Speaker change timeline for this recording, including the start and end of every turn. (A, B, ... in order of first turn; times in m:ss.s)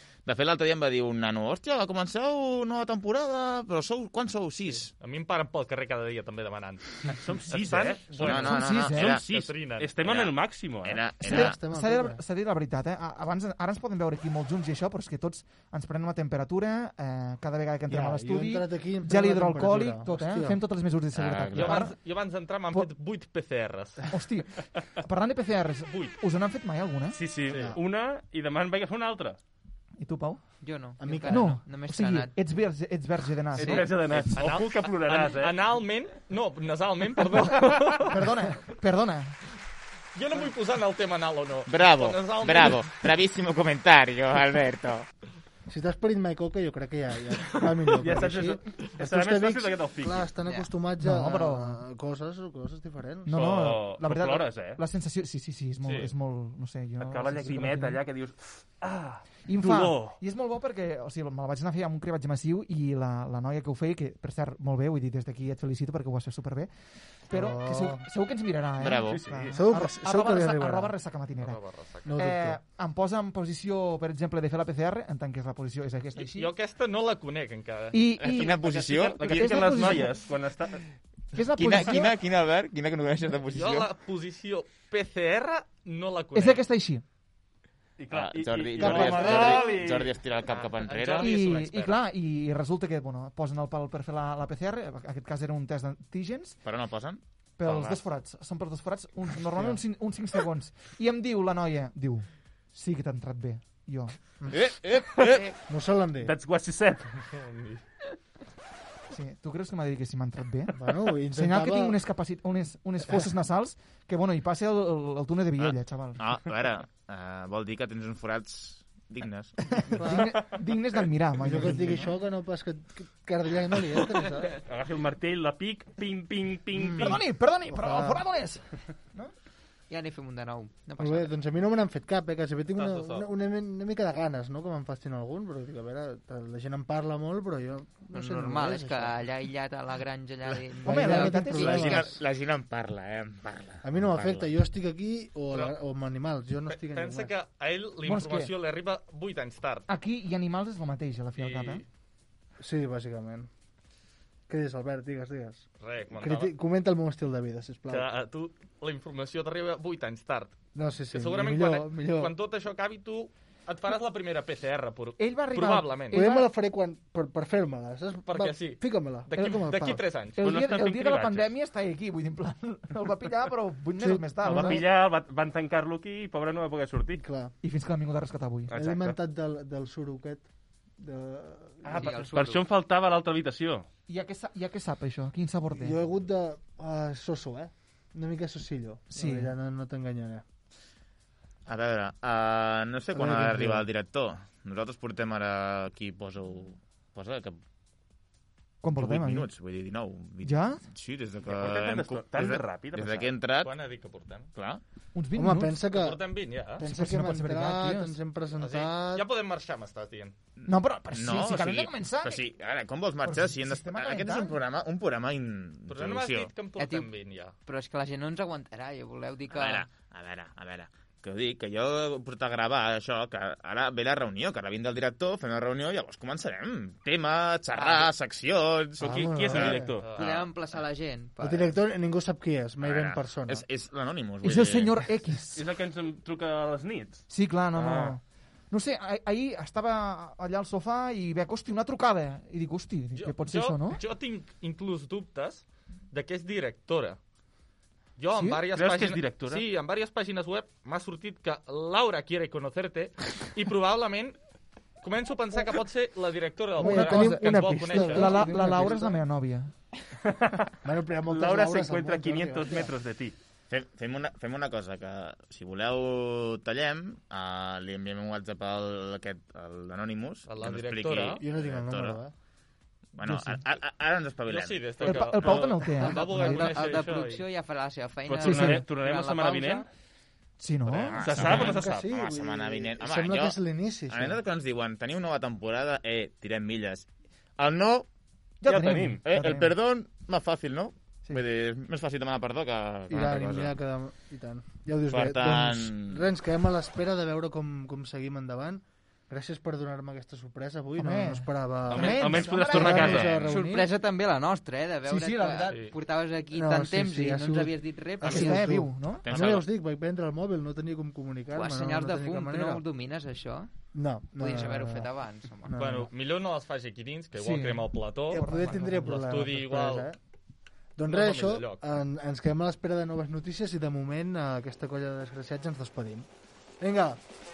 0:00.2-0:04.9 A
0:04.7-0:09.9 B
0:07.1-0:11.1 C
0:08.2-0:09.4 A
0:08.3-0:09.1 D
0:10.0-0:11.6 A
0:11.2-0:12.2 E
0:11.2-0:22.0 D
0:17.9-0:20.6 E
0:21.1-0:21.8 A
0:21.6-0:24.0 B
0:24.1-0:27.2 D
0:25.9-0:26.2 B
0:27.1-0:29.4 C
0:27.5-0:27.8 B
0:27.5-0:27.8 E
0:30.0-0:30.4 D
0:30.6-0:32.3 F
0:31.0-0:31.6 E
0:31.3-0:34.2 D
0:33.6-0:35.6 C
0:33.6-0:33.9 F
0:34.3-0:38.2 B
0:37.4-0:38.0 C
0:38.0-0:39.4 D
0:40.2-0:42.9 B
0:41.7-0:45.1 A
0:45.7-0:53.6 E
0:48.0-0:50.3 C
0:51.0-0:51.8 D
0:53.3-0:58.0 D
0:53.3-0:54.8 C
0:55.8-0:56.1 B
0:57.0-1:00.2 C
0:59.5-1:06.7 D
1:07.3-1:11.6 D
1:07.3-1:08.0 E
1:08.8-1:09.2 A
1:09.1-1:09.6 C
1:09.5-1:10.9 E
1:11.4-1:12.1 B
1:12.0-1:12.6 E
1:12.1-1:16.5 D
1:16.2-1:18.0 B
1:17.9-1:20.2 D
1:18.2-1:20.0 A
1:18.6-1:20.9 C
1:21.3-1:22.2 D
1:21.5-1:23.9 A
1:23.5-1:26.6 B
1:26.4-1:27.0 D
1:28.0-1:30.2 C
1:28.1-1:31.3 A
1:28.8-1:29.8 E
1:30.4-1:32.0 B
1:31.2-1:36.6 D
1:36.6-1:38.0 A
1:37.6-1:44.2 D
1:39.5-1:39.8 E
1:44.5-1:45.6 A
1:45.7-1:46.4 E
1:46.2-1:47.3 C
1:47.3-1:47.8 B
1:49.1-1:56.2 D
1:50.7-1:52.0 E
1:55.6-2:00.0 A
1:59.7-2:02.1 D
2:00.0-2:00.4 E
2:01.4-2:04.6 E
2:04.6-2:07.2 C
2:06.7-2:07.2 E
2:07.0-2:09.3 D
2:07.7-2:08.2 E
2:09.9-2:11.3 F
2:11.0-2:19.2 E
2:12.8-2:13.3 B
2:18.1-2:22.2 F
2:20.8-2:22.2 E
2:20.8-2:22.0 D
2:21.6-2:24.5 A
2:23.8-2:27.3 E
2:25.5-2:25.8 B
2:26.7-2:29.9 B
2:28.0-2:28.5 D
2:29.9-2:31.8 D
2:31.4-2:31.8 B
2:32.6-2:33.5 E
2:34.5-2:38.1 E
2:35.8-2:36.5 B
2:37.9-2:40.6 B
2:40.8-2:42.3 E
2:41.1-2:46.2 B
2:45.2-2:46.5 D
2:46.1-2:50.0 E
2:48.3-2:50.4 B
2:49.4-2:49.7 D
2:50.4-2:54.8 D
2:50.4-2:51.5 C
2:54.0-2:54.8 E
2:54.4-2:57.2 C
2:57.2-2:57.5 E
2:57.6-2:58.8 D
2:58.7-2:59.2 C
2:58.7-3:00.5 E
3:01.0-3:02.2 E
3:01.8-3:03.9 C
3:01.9-3:02.6 F
3:04.1-3:06.0 D
3:05.7-3:10.4 E
3:09.1-3:09.6 D
3:11.7-3:17.6 A
3:13.1-3:13.9 E
3:18.8-3:19.5 D
3:19.0-3:23.7 A
3:20.4-3:20.8 D
3:21.5-3:23.3 C
3:23.6-3:24.5 B
3:24.6-3:24.8 A
3:25.1-3:25.8 D
3:25.4-3:26.2 E
3:25.9-3:26.8 B
3:26.8-3:29.2 E
3:26.8-3:28.2 D
3:28.6-3:30.4 B
3:30.6-3:32.5 D
3:31.1-3:36.5 A
3:33.2-3:34.6 D
3:35.9-3:37.6 B
3:36.8-3:37.1 F
3:37.6-3:39.9 F
3:39.5-3:49.8 A
3:47.8-3:48.1 F
3:49.0-3:50.1 C
3:49.0-3:50.0 E
3:50.0-3:50.4 B
3:50.2-3:51.8 F
3:51.4-3:53.6 E
3:52.8-3:55.0 A
3:54.4-3:55.6 D
3:55.5-3:58.2 C
3:57.3-4:04.0 D
4:03.2-4:07.2 B
4:08.2-4:14.4 B
4:08.3-4:08.6 D
4:08.7-4:09.6 C
4:15.0-4:18.7 B
4:16.8-4:19.2 E
4:16.8-4:19.7 D
4:20.2-4:20.7 C
4:20.8-4:22.9 E
4:21.3-4:23.4 C
4:23.7-4:32.2 A
4:30.5-4:31.4 B
4:31.4-4:32.3 E
4:33.1-4:35.7 A
4:33.2-4:33.6 D
4:34.5-4:37.4 B
4:35.0-4:37.0 D
4:35.9-4:39.9 F
4:38.3-4:39.9 C
4:38.4-4:38.8 D
4:40.6-4:41.6 D
4:41.1-4:43.6 A
4:41.1-4:42.1 C
4:41.4-4:44.4 E
4:44.1-4:48.1 A
4:48.6-4:49.7 D
4:48.6-4:49.2 C
4:49.2-4:53.8 A
4:53.1-5:03.9 E
4:55.1-4:56.3 A
5:01.0-5:03.4 D
5:01.9-5:03.5 C
5:03.1-5:08.8 F
5:05.0-5:05.8 D
5:06.5-5:12.8 E
5:08.2-5:09.3 D
5:09.2-5:09.7 A
5:11.5-5:13.7 F
5:13.9-5:15.1 E
5:14.4-5:15.8 F
5:15.6-5:16.1 E
5:15.8-5:20.1 B
5:17.4-5:19.5 D
5:18.3-5:20.2 E
5:21.0-5:26.3 E
5:21.1-5:21.8 B
5:26.8-5:27.2 E